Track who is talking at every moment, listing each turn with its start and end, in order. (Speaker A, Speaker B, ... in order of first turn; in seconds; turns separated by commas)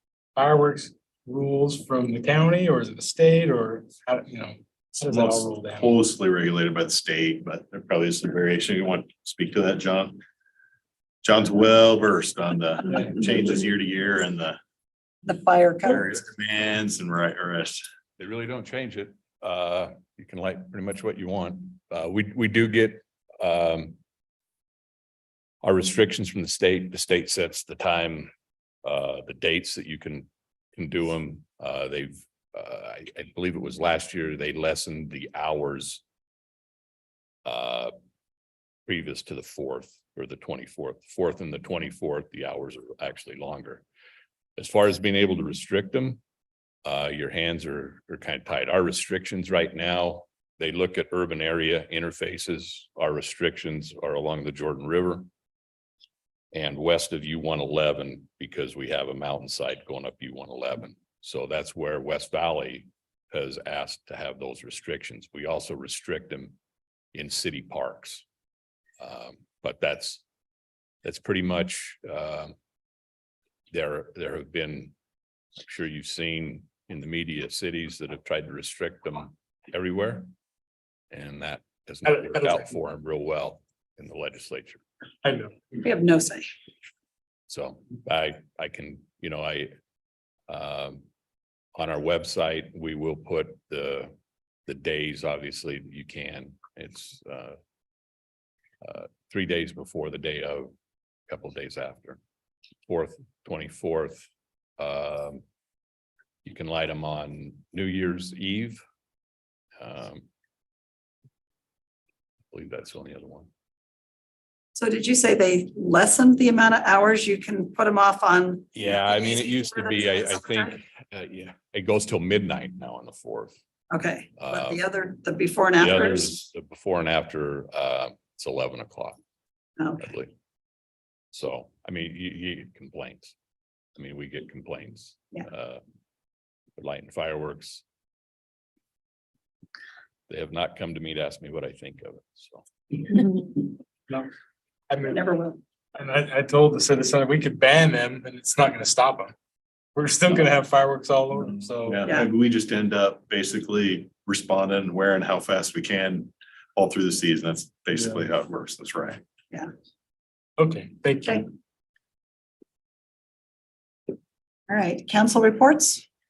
Speaker A: 0.4-5.9, Speaker B: 5.0-10.2, Speaker B: 11.2-14.6, Speaker C: 15.3-16.1, Speaker B: 15.9-17.8, Speaker D: 18.2-23.9, Speaker D: 25.6-28.3, Speaker D: 28.8-36.0, Speaker D: 37.5-37.9, Speaker D: 38.9-43.8, Speaker D: 44.6-46.2, Speaker D: 46.9-55.3, Speaker D: 56.5-66.5, Speaker D: 67.1-68.2, Speaker D: 69.0-70.2, Speaker D: 71.0-72.5, Speaker D: 73.7-74.9, Speaker D: 75.6-80.3, Speaker D: 81.1-84.8, Speaker A: 82.1-82.7, Speaker A: 85.2-85.6, Speaker C: 85.8-86.5, Speaker D: 87.5-89.7, Speaker D: 90.5-91.0, Speaker D: 91.8-94.1, Speaker D: 94.7-97.6, Speaker D: 98.8-100.7, Speaker D: 101.3-102.2, Speaker D: 102.9-104.3, Speaker D: 104.8-105.4, Speaker D: 106.5-108.8, Speaker D: 109.8-110.2, Speaker D: 112.5-113.5, Speaker C: 114.8-120.8, Speaker D: 118.7-123.6, Speaker C: 123.9-126.4, Speaker D: 124.4-124.8, Speaker D: 125.8-129.2, Speaker C: 129.8-130.1, Speaker D: 130.0-130.3, Speaker D: 131.3-133.3, Speaker D: 134.0-135.8, Speaker D: 136.8-137.8, Speaker D: 140.3-142.7, Speaker A: 144.9-145.2, Speaker C: 145.1-145.6, Speaker A: 145.9-149.3, Speaker A: 149.9-152.0, Speaker B: 151.8-159.2, Speaker A: 160.6-161.5, Speaker C: 164.7-166.0